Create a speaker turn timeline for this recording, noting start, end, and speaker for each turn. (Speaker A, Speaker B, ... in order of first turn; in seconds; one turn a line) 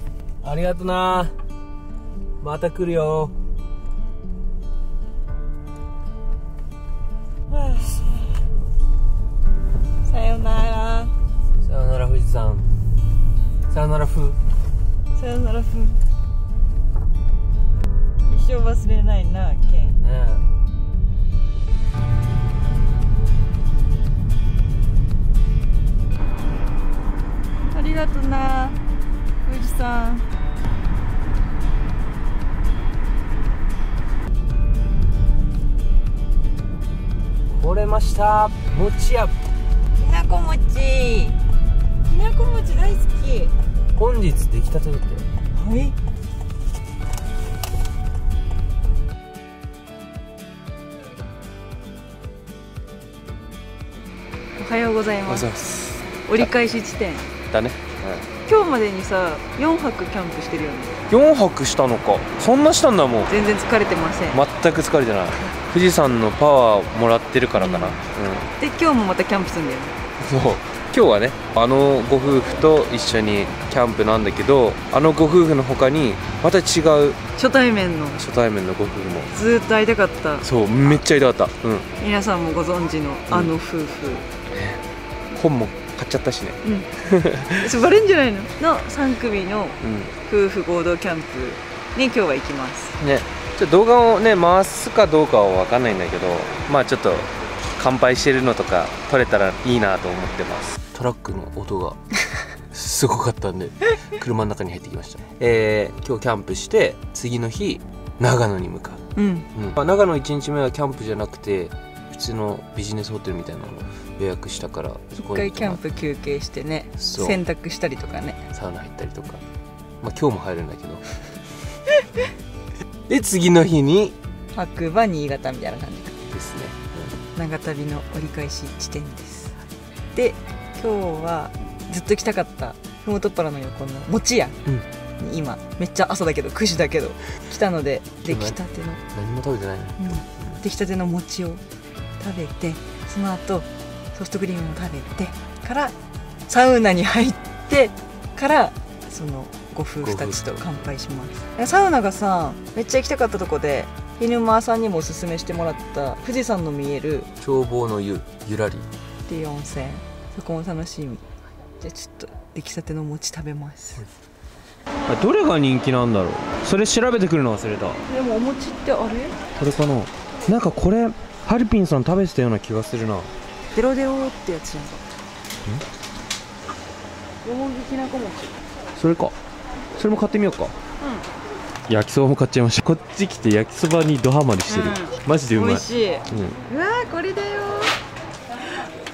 Speaker A: 0.4-1.3
Speaker A: 2.4-3.3
Speaker B: 7.5-8.3
Speaker B: 10.1-11.1
Speaker A: 11.6-12.7
Speaker A: 13.7-14.4
Speaker B: 15.2-16.0
Speaker B: 18.2-20.0
Speaker A: 20.0-20.4
Speaker B: 27.7-28.8
Speaker B: 29.4-30.2
Speaker A: 37.5-39.3
Speaker B: 40.0-41.4
Speaker B: 42.0-43.5
Speaker A: 43.9-45.3
Speaker B: 45.5-46.0
Speaker B: 54.6-55.5
Speaker A: 55.3-56.5
Speaker B: 56.3-57.3
Speaker A: 57.5-58.3
Speaker B: 58.5-61.0
Speaker A: 61.1-63.3
Speaker B: 63.3-64.4
Speaker A: 64.3-68.5
Speaker B: 67.6-68.0
Speaker B: 68.6-70.0
Speaker A: 70.2-77.2
Speaker B: 77.4-78.2
Speaker A: 78.2-79.3
Speaker B: 79.3-80.4
Speaker A: 80.4-81.9
Speaker B: 82.0-84.3
Speaker A: 84.5-87.7
Speaker B: 86.6-86.9
Speaker B: 87.5-93.0
Speaker A: 89.8-90.1
Speaker A: 93.0-102.0
Speaker A: 102.6-115.8
Speaker B: 109.2-109.5
Speaker B: 115.2-118.4
Speaker A: 117.0-117.4
Speaker A: 118.5-119.4
Speaker A: 120.0-121.0
Speaker A: 123.1-124.2
Speaker B: 124.5-126.2
Speaker A: 126.3-127.2
Speaker B: 127.3-129.5
Speaker B: 130.1-134.6
Speaker B: 135.2-139.0
Speaker A: 138.2-138.6
Speaker A: 139.1-140.6
Speaker B: 140.0-141.6
Speaker B: 142.2-145.9
Speaker B: 146.5-157.3
Speaker A: 150.0-150.8
Speaker A: 157.4-158.9
Speaker B: 159.3-161.2
Speaker B: 161.8-164.0
Speaker A: 165.1-168.0
Speaker B: 168.1-169.3
Speaker A: 169.6-173.3
Speaker B: 173.7-175.0
Speaker B: 177.4-178.6
Speaker A: 178.9-179.4
Speaker A: 179.9-180.8
Speaker B: 181.0-181.3
Speaker A: 181.9-186.6
Speaker B: 184.7-187.9